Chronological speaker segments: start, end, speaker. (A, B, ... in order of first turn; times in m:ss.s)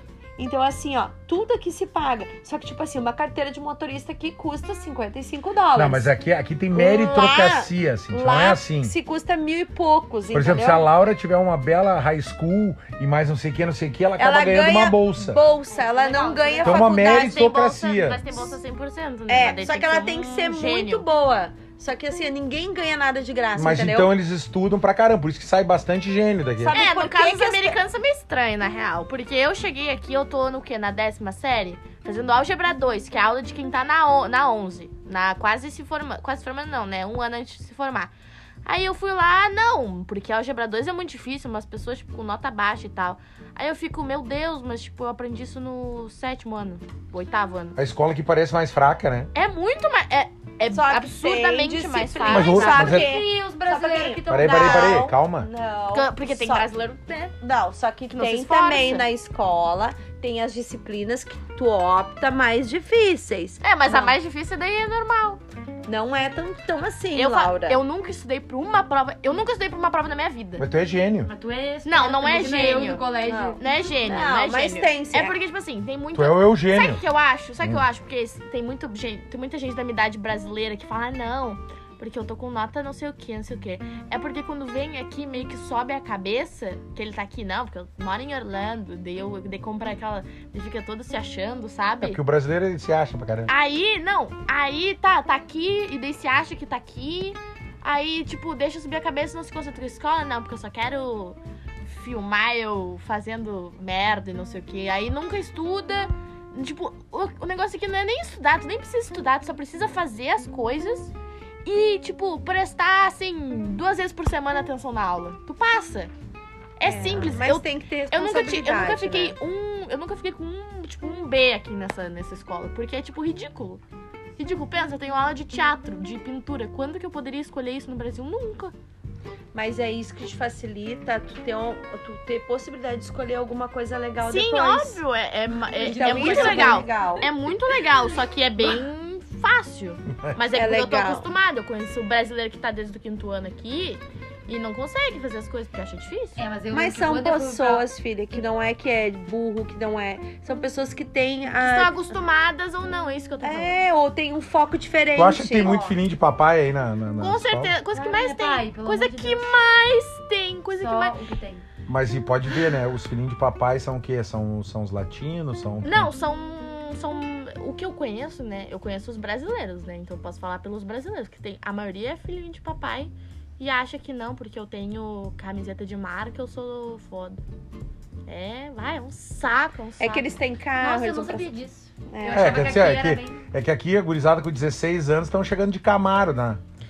0:00.4-0:06.1 A
0:05.7-0:08.9 B
0:06.7-0:10.9 A
0:10.3-0:15.4 B
0:14.2-0:17.4 A
0:15.7-0:17.0 C
0:16.6-0:18.5 B
0:16.7-0:21.0 D
0:19.3-0:24.1 A
0:23.5-0:26.8 B
0:26.6-0:27.8 A
0:26.7-0:38.1 D
0:38.6-0:47.8 D
0:47.8-0:49.3 B
0:49.3-0:53.0 D
0:50.6-0:56.7 A
0:52.3-0:53.1 B
0:52.6-0:55.1 C
0:54.3-0:55.5 B
0:55.9-0:57.3 D
0:57.4-1:03.6 A
0:58.1-0:59.1 D
1:03.6-1:05.4 D
1:05.9-1:07.8 A
1:07.1-1:10.6 D
1:10.6-1:11.3 B
1:11.3-1:13.6 C
1:11.8-1:13.0 D
1:13.2-1:15.4 A
1:13.6-1:32.2 D
1:16.1-1:17.0 B
1:32.0-1:33.5 B
1:33.5-1:51.1 D
1:51.6-1:56.1 D
1:56.8-2:03.8 D
1:56.8-1:59.3 A
2:04.4-2:08.7 D
2:09.5-2:15.0 A
2:14.2-2:26.4 D
2:15.7-2:17.3 A
2:15.8-2:16.9 C
2:20.5-2:21.2 A
2:26.4-2:27.9 C
2:26.7-2:32.2 A
2:31.6-2:33.7 D
2:33.4-2:35.8 A
2:35.1-2:37.7 B
2:35.6-2:36.0 C
2:37.2-2:41.2 D
2:37.9-2:39.5 C
2:40.8-2:41.6 C
2:41.8-2:46.1 B
2:45.8-2:57.4 D
2:58.3-3:00.4 D
3:00.0-3:01.5 A
3:00.8-3:03.4 C
3:02.1-3:02.7 A
3:02.3-3:06.6 B